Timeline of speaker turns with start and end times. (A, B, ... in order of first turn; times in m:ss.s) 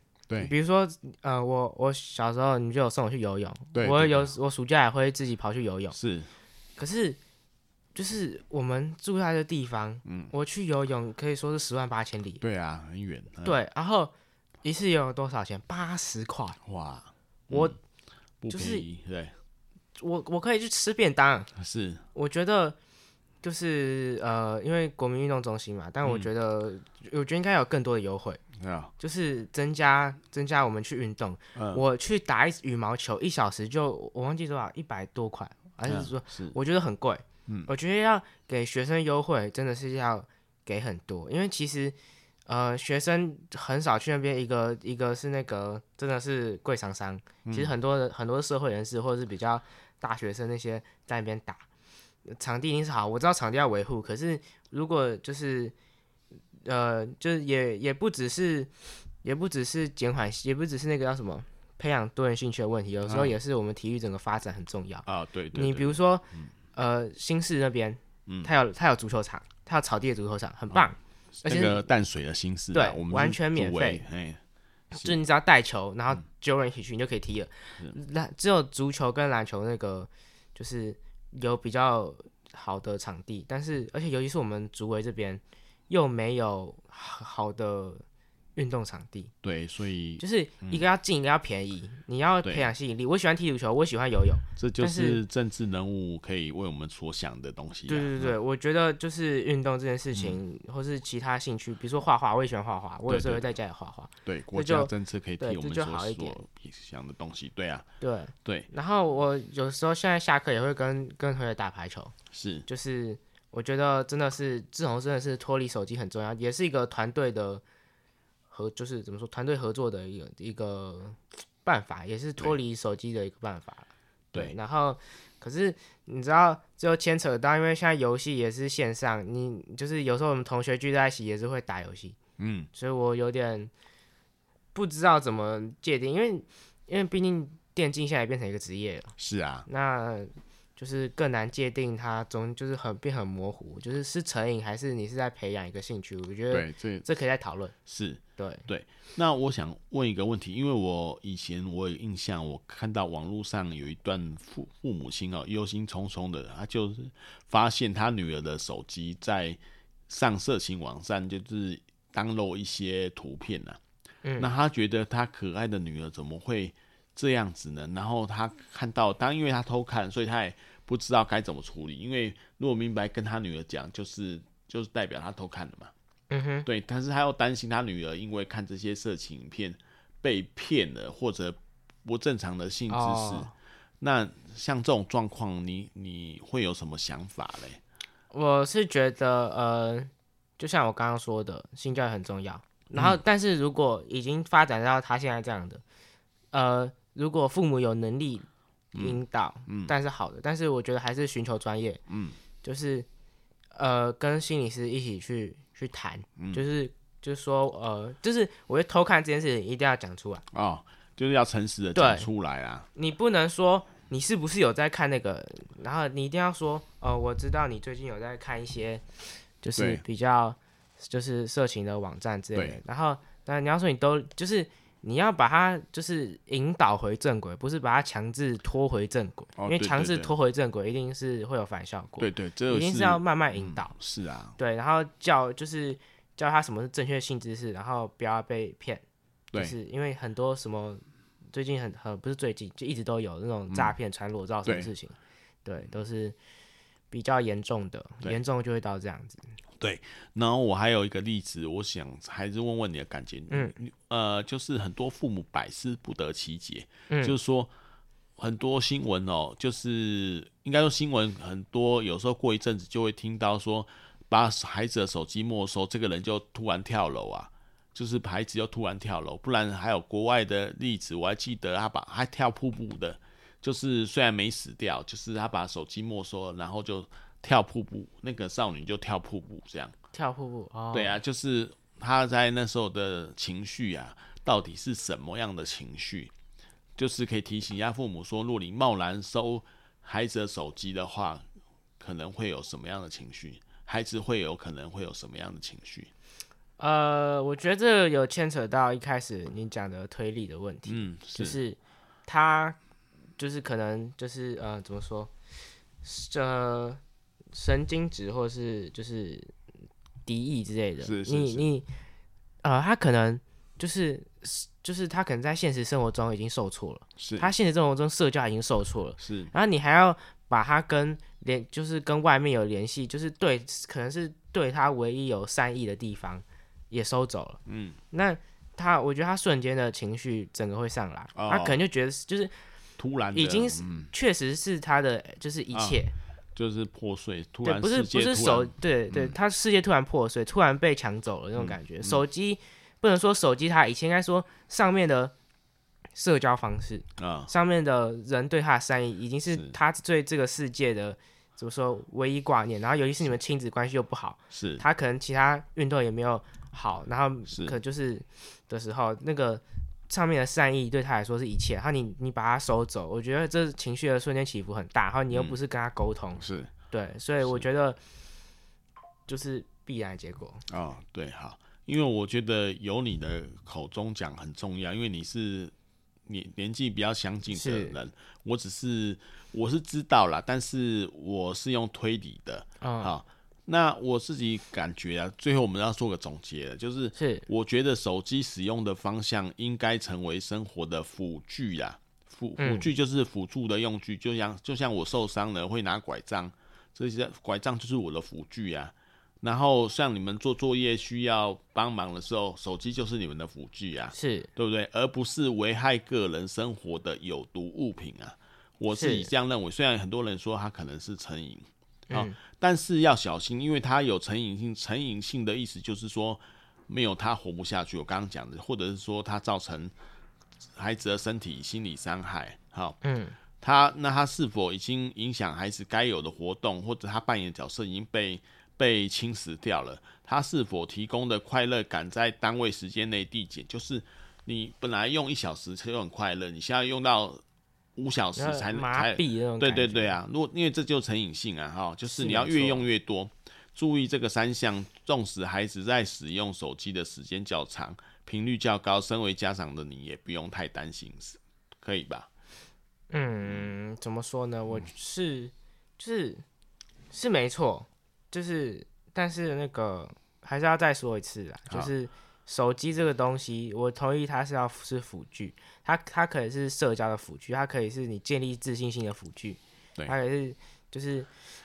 0:00.4-0:06.0 A
0:03.7-0:04.3 B
0:05.9-0:06.3 B
0:06.8-0:07.2 A
0:07.9-0:12.4 A
0:10.0-0:10.3 B
0:12.4-0:13.6 B
0:13.4-0:14.1 A
0:14.6-0:16.6 A
0:16.6-0:17.8 B
0:17.5-0:17.7 A
0:18.4-0:19.3 B
0:18.5-0:18.8 A
0:20.0-0:21.5 A
0:21.6-0:22.0 B
0:22.1-0:22.8 A
0:23.4-0:28.4 A
0:26.0-0:26.3 B
0:28.6-0:28.9 B
0:29.0-0:41.9 A
0:31.5-0:31.8 B
0:35.8-0:36.6 B
0:42.4-0:51.6 A
0:47.4-0:47.7 B
0:52.3-0:55.7 A
0:56.6-0:58.7 A
0:59.2-1:11.8 A
1:03.0-1:03.3 B
1:05.0-1:06.5 B
1:11.4-1:14.4 B
1:12.7-1:14.0 A
1:14.9-1:28.0 A
1:28.6-1:29.3 A
1:29.4-1:30.8 B
1:30.2-1:35.2 A
1:32.4-1:32.7 B
1:34.6-1:38.4 B
1:37.9-1:46.4 A
1:43.1-1:43.4 B
1:44.2-1:47.9 B
1:48.0-1:52.1 A
1:52.3-1:52.7 B
1:52.7-1:57.6 A
1:58.5-2:12.2 A
2:12.4-2:12.7 B
2:12.7-2:13.7 A
2:14.7-2:19.1 A
2:19.2-2:19.6 B
2:19.6-2:27.7 A
2:26.5-2:27.0 B
2:27.8-2:43.8 B
2:28.4-2:28.6 A
2:44.2-2:44.5 A
2:44.4-2:55.9 B
2:56.3-2:56.7 A
2:56.6-3:07.8 B
3:02.9-3:03.5 A
3:08.3-3:15.8 A
3:16.5-3:22.0 A
3:18.9-3:19.9 B
3:22.1-3:22.4 B
3:22.6-3:23.1 A
3:23.7-3:30.4 A
3:26.4-3:26.6 B
3:30.5-3:32.9 B
3:31.9-3:32.3 A
3:32.9-3:53.9 A
3:39.8-3:40.0 B
3:42.5-3:42.8 B
3:49.6-3:50.3 B
3:52.2-3:54.6 B
3:54.6-3:59.0 A
3:59.5-4:06.4 A
4:03.7-4:03.9 B
4:07.1-4:09.5 A
4:09.8-4:17.7 B
4:17.1-4:17.3 A
4:18.4-4:39.9 B
4:40.1-4:41.2 A
4:40.9-4:46.3 B
4:47.0-4:51.4 B
4:52.0-4:56.1 B
4:56.8-5:02.8 A
5:00.9-5:01.6 B
5:03.4-5:05.3 A
5:06.0-5:07.0 A
5:07.5-5:09.5 A
5:10.2-5:11.9 A
5:11.0-5:11.7 B
5:12.6-5:27.6 A
5:17.2-5:17.5 B
5:19.2-5:19.5 B
5:27.7-5:28.0 B
5:28.1-5:32.5 A
5:31.3-5:31.8 B
5:33.0-5:34.1 B
5:33.3-5:36.1 A
5:35.7-5:36.0 B
5:36.5-5:39.3 B
5:37.6-5:45.3 A
5:41.6-5:42.2 B
5:46.2-6:08.0 A
5:47.2-5:47.5 B
5:49.5-5:49.8 B
5:54.5-5:54.8 B
5:57.5-5:57.8 B
6:05.3-6:05.6 B
6:06.4-6:06.7 B
6:09.3-6:10.6 A
6:10.7-6:15.7 B
6:16.3-6:59.9 B
6:17.5-6:18.0 A
6:22.8-6:23.1 A
6:27.2-6:27.5 A
6:32.6-6:32.9 A
6:44.1-6:44.5 A
6:48.9-6:49.3 A
6:52.1-6:52.4 A
7:00.8-7:03.0 B
7:03.0-7:03.4 A
7:03.6-7:17.4 B
7:18.0-7:32.3 B
7:18.4-7:20.2 A
7:22.1-7:22.8 A
7:33.1-7:36.4 A
7:37.1-7:51.3 A